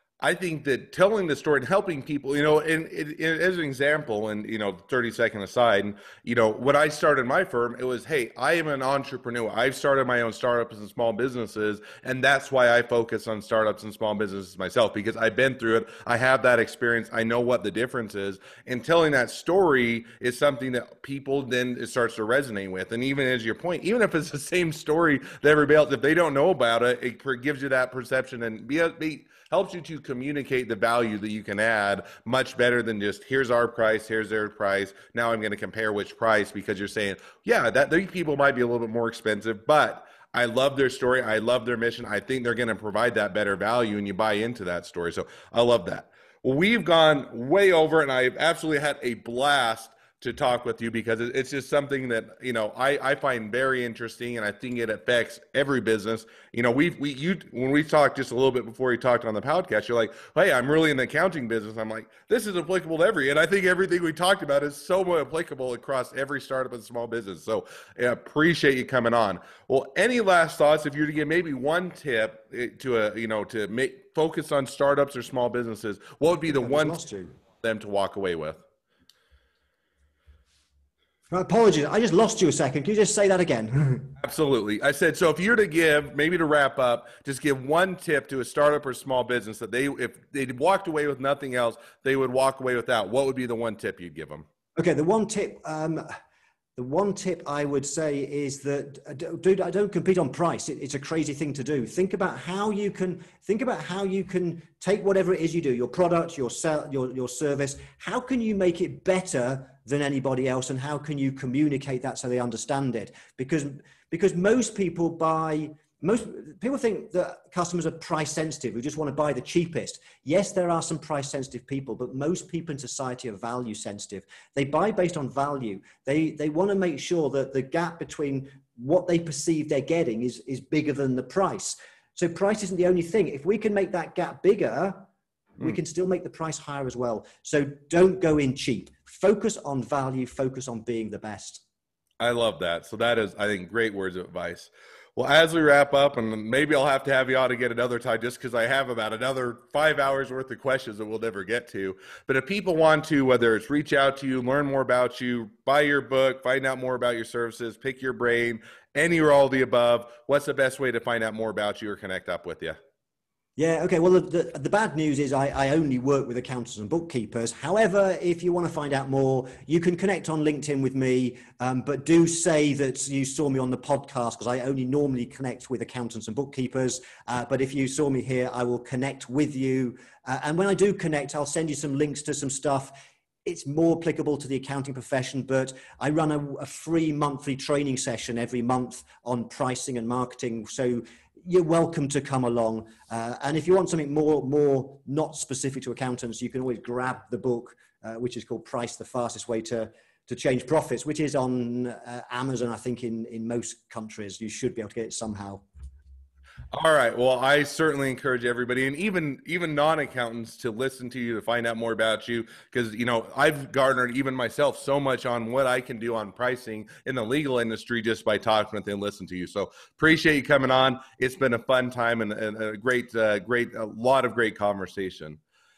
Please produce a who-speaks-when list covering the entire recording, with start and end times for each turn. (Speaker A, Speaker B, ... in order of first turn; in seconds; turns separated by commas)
Speaker A: 0.2-77.0, Speaker B: 76.5-77.3, Speaker A: 77.6-78.6, Speaker B: 81.3-84.1, Speaker A: 84.2-94.4, Speaker B: 94.8-96.1, Speaker B: 96.8-135.1, Speaker B: 135.6-141.6, Speaker A: 142.2-162.8, Speaker B: 163.6-205.6, Speaker A: 206.7-225.4